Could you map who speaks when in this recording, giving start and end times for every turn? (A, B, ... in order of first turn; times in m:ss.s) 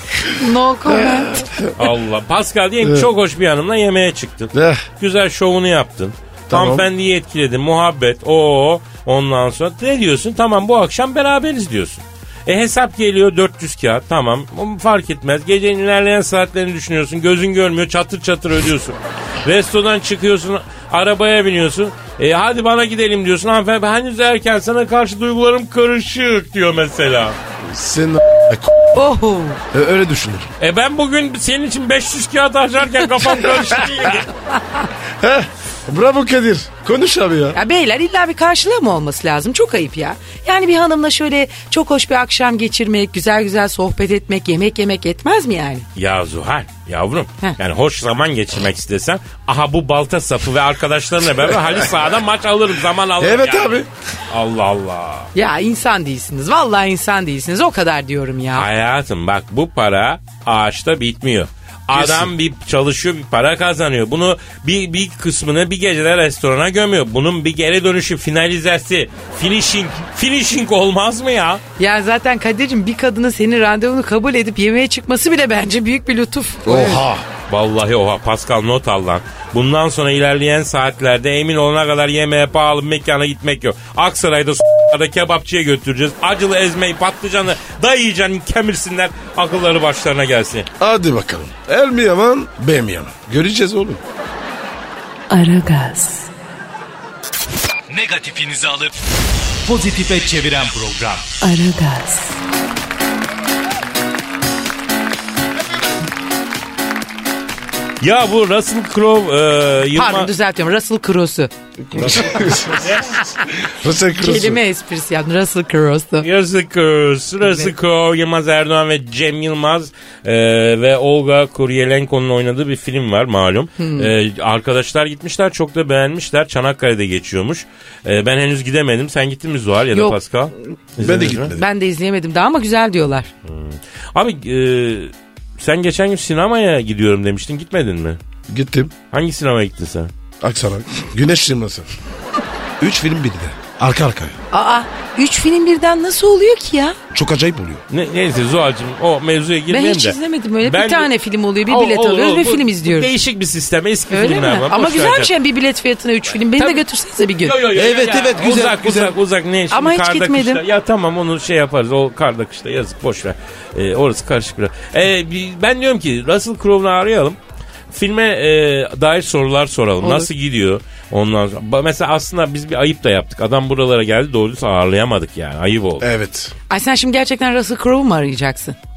0:00.2-0:01.5 A
0:00.9-0:01.8 B
0:01.8-0:27.4 C
0:02.8-0:03.1 B
0:04.5-0:04.9 B
0:06.5-0:06.9 B
0:27.6-0:29.0 B
0:29.0-0:29.6 A
0:29.7-0:30.5 B
0:30.6-0:34.3 C
0:35.2-0:37.6 B
0:37.5-0:45.9 A
0:46.0-0:55.3 C
0:53.2-0:53.9 B
0:55.4-0:58.7 A
0:58.6-1:11.6 C
1:01.9-1:02.3 B
1:11.8-1:17.0 A
1:16.6-1:17.3 B
1:17.5-1:30.7 C
1:30.8-1:34.0 B
1:35.3-1:36.3 D
1:37.9-1:39.0 E
1:39.6-1:41.4 E
1:41.4-1:42.4 D
1:48.0-1:50.3 C
1:50.0-1:52.5 A
1:51.9-1:52.9 B
1:52.8-1:53.2 C
1:53.6-1:54.6 B
1:54.2-1:56.3 A
1:56.2-2:11.5 C
1:57.4-1:57.7 A
2:03.8-2:04.1 A
2:11.0-2:11.6 B
2:11.5-2:13.3 A
2:13.5-2:18.2 C
2:18.5-2:18.9 B
2:19.1-2:20.1 C
2:20.4-2:21.9 B
2:22.8-2:24.4 B
2:24.5-2:27.0 A
2:27.1-2:27.8 B
2:27.9-2:31.1 C
2:29.7-2:33.1 A
2:31.7-2:35.3 C
2:34.1-2:37.7 A
2:37.4-2:47.4 C
2:37.7-2:39.2 B
2:39.7-2:40.6 A
2:47.9-2:56.1 C
2:50.0-2:50.3 A
2:56.0-2:56.5 B
2:56.7-2:58.8 A